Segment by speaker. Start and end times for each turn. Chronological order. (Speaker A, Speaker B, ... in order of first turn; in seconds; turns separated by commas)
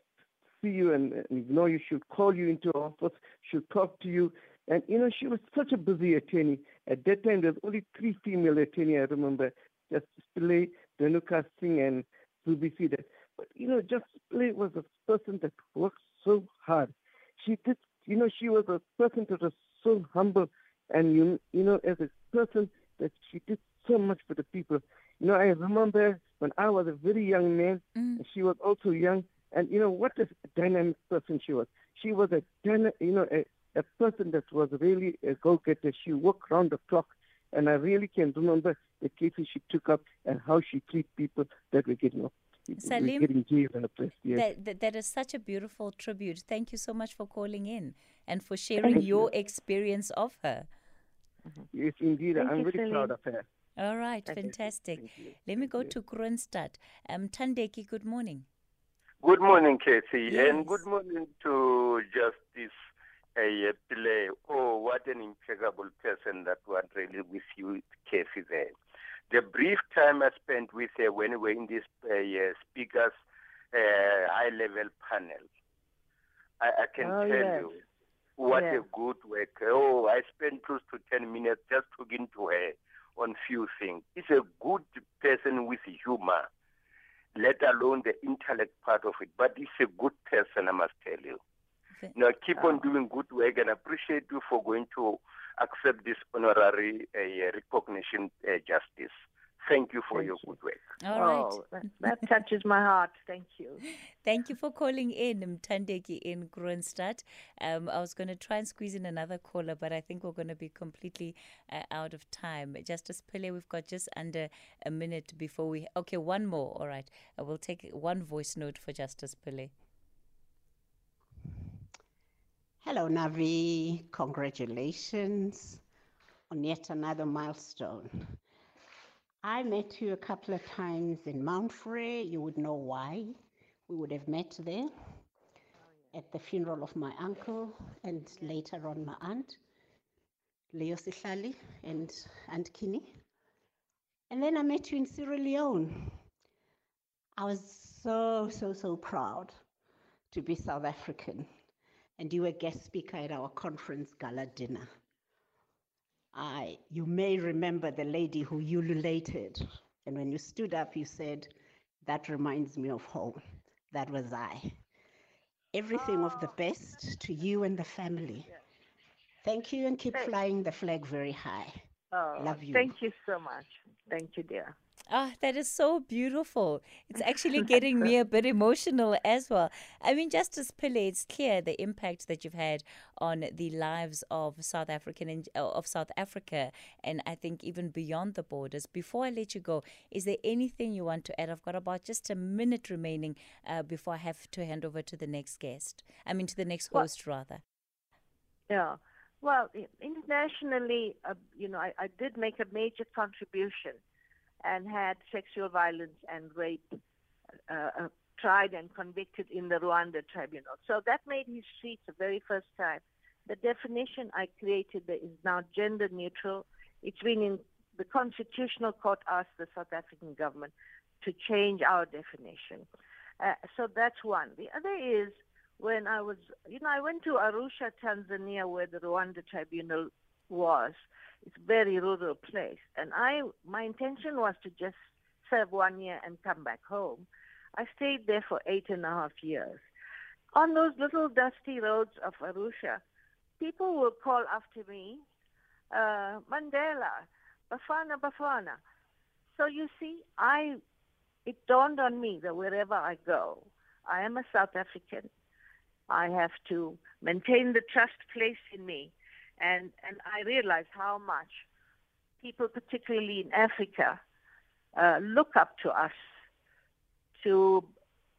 Speaker A: 0.6-44.4, Speaker B: 27.9-28.2, Speaker B: 42.8-43.3, Speaker B: 44.3-50.7, Speaker A: 51.7-53.4, Speaker C: 52.4-53.1, Speaker B: 53.8-58.5, Speaker A: 55.0-55.9, Speaker D: 59.2-62.7, Speaker B: 60.4-60.8, Speaker D: 63.4-68.7, Speaker D: 69.3-73.1, Speaker D: 73.7-75.5, Speaker D: 76.6-77.8, Speaker C: 77.0-77.7, Speaker D: 78.4-86.5, Speaker C: 78.5-78.8, Speaker D: 87.3-91.4, Speaker D: 92.1-100.9, Speaker C: 92.5-92.8, Speaker C: 100.1-100.5, Speaker B: 101.0-101.6, Speaker C: 101.1-103.8, Speaker B: 104.2-119.7, Speaker E: 122.8-125.8, Speaker E: 126.5-128.4, Speaker E: 129.4-133.4, Speaker E: 133.9-134.9, Speaker E: 136.1-139.6, Speaker E: 140.7-143.1, Speaker E: 144.3-146.2, Speaker E: 147.4-149.6, Speaker E: 150.3-151.5, Speaker E: 152.2-154.9, Speaker E: 156.3-161.5, Speaker E: 162.0-164.8, Speaker E: 165.7-168.5, Speaker E: 169.4-171.8, Speaker C: 172.1-174.7, Speaker E: 172.4-172.9, Speaker B: 175.1-197.6, Speaker C: 198.7-204.0, Speaker C: 204.6-207.0, Speaker C: 207.7-222.8, Speaker C: 223.4-239.8, Speaker C: 240.5-243.0, Speaker C: 243.6-245.2, Speaker C: 245.9-248.8, Speaker C: 249.6-250.8, Speaker C: 251.4-255.3, Speaker C: 256.1-261.6, Speaker C: 262.4-264.2, Speaker C: 264.9-266.1, Speaker C: 267.4-267.9